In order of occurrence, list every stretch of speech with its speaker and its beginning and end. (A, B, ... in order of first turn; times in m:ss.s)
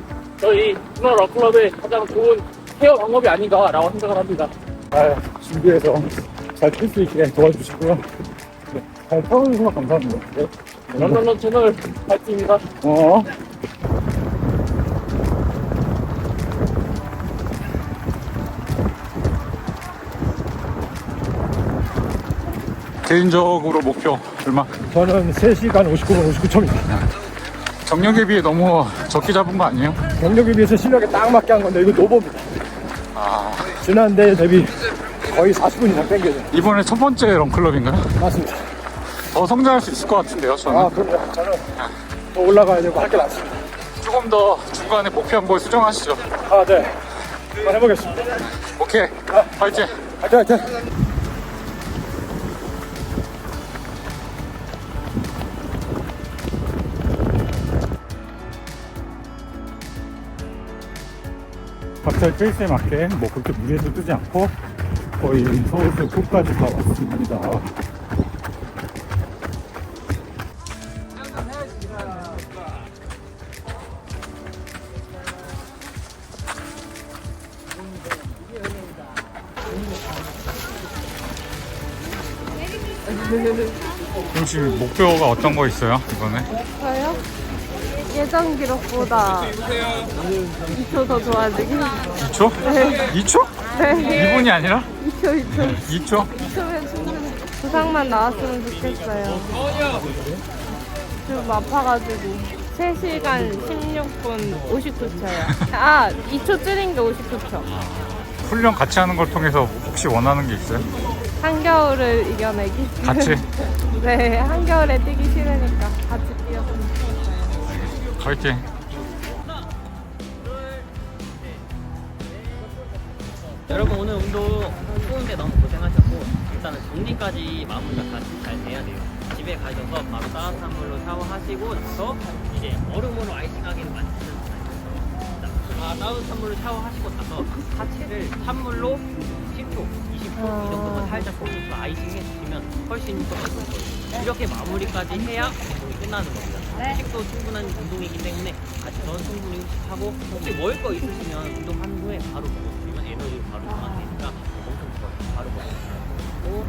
0:00.4-0:04.5 A
0:04.9-0:08.1 B
0:08.7-0:11.3 B
0:11.0-0:12.6 A
0:12.8-0:13.3 B
0:23.0-0:24.8 B
0:24.9-0:26.9 C
0:27.8-0:30.0 B
0:30.2-0:32.5 C
0:33.1-0:33.8 B
0:33.8-0:36.5 C
0:36.5-0:38.2 B
0:38.2-0:38.6 C
0:39.2-0:41.0 B
0:40.7-0:41.6 C
0:42.3-0:43.6 C
0:44.0-0:46.3 B
0:46.5-0:46.9 C
0:47.6-0:48.3 C
0:48.6-0:50.0 B
0:50.1-0:50.8 C
1:02.0-1:04.6 B
1:05.2-1:07.7 B
1:22.9-1:24.0 D
1:24.3-1:26.6 B
1:26.8-1:27.2 D
1:28.0-1:30.0 D
1:30.7-1:33.1 D
1:32.2-1:34.9 B
1:33.6-1:39.8 D
1:35.5-1:36.3 B
1:39.8-1:40.2 B
1:41.2-1:47.7 D
1:45.4-1:45.7 B
1:47.6-1:50.9 B
1:51.4-1:57.3 D
1:53.0-1:53.5 B
1:57.6-1:58.7 B
2:03.6-2:36.4 E
2:20.4-2:21.2 D